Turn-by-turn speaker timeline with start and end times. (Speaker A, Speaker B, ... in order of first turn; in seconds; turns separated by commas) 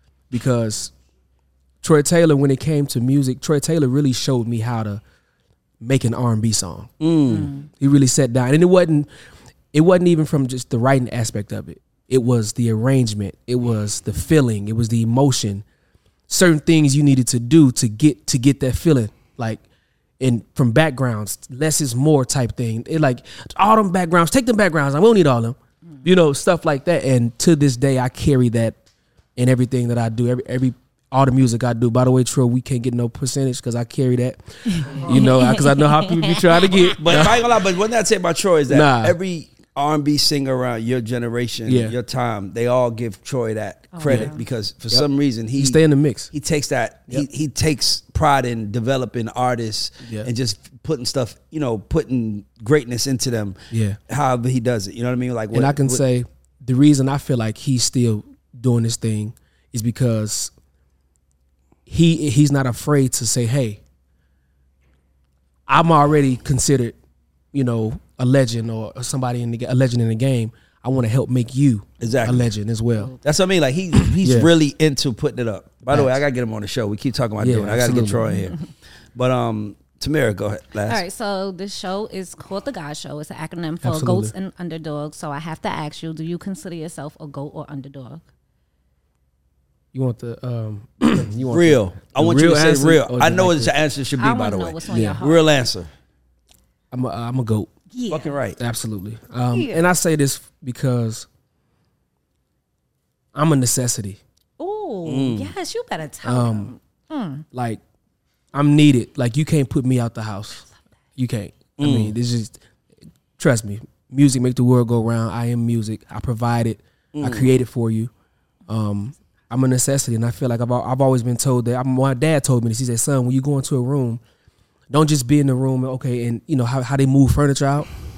Speaker A: 0.3-0.9, Speaker A: 1.8-5.0, Speaker A: 5.8-6.9, Speaker B: 7.0-7.5, Speaker C: 7.3-7.7, Speaker A: 7.7-9.1, Speaker A: 9.7-15.6, Speaker A: 16.3-19.6, Speaker A: 20.2-28.8, Speaker A: 29.4-37.5, Speaker C: 34.7-36.9, Speaker B: 37.0-45.8, Speaker A: 38.7-39.2, Speaker A: 41.6-42.0, Speaker C: 43.9-44.4, Speaker A: 44.9-46.3, Speaker B: 46.3-53.6, Speaker A: 50.0-50.3, Speaker A: 53.7-54.0, Speaker B: 54.1-56.0, Speaker A: 55.5-60.5, Speaker A: 61.9-63.8, Speaker A: 65.7-67.0, Speaker A: 67.5-73.1, Speaker B: 72.0-72.5, Speaker B: 73.2-78.6, Speaker A: 74.0-74.5, Speaker A: 75.9-76.2, Speaker A: 77.4-78.4, Speaker B: 79.1-81.0, Speaker C: 80.9-88.2, Speaker A: 83.8-84.3, Speaker A: 89.9-93.7, Speaker B: 91.5-95.9, Speaker C: 94.2-95.5, Speaker A: 94.9-95.2, Speaker A: 96.9-97.7, Speaker C: 97.9-98.3, Speaker B: 98.1-98.6, Speaker A: 98.6-101.3, Speaker C: 99.5-99.9, Speaker A: 103.3-104.2, Speaker C: 104.6-107.4, Speaker B: 105.0-105.5, Speaker A: 106.2-106.7, Speaker A: 107.5-107.8, Speaker A: 108.5-112.6, Speaker B: 111.8-112.1, Speaker A: 113.4-118.1, Speaker B: 117.2-117.5, Speaker A: 118.7-124.2, Speaker A: 124.9-127.9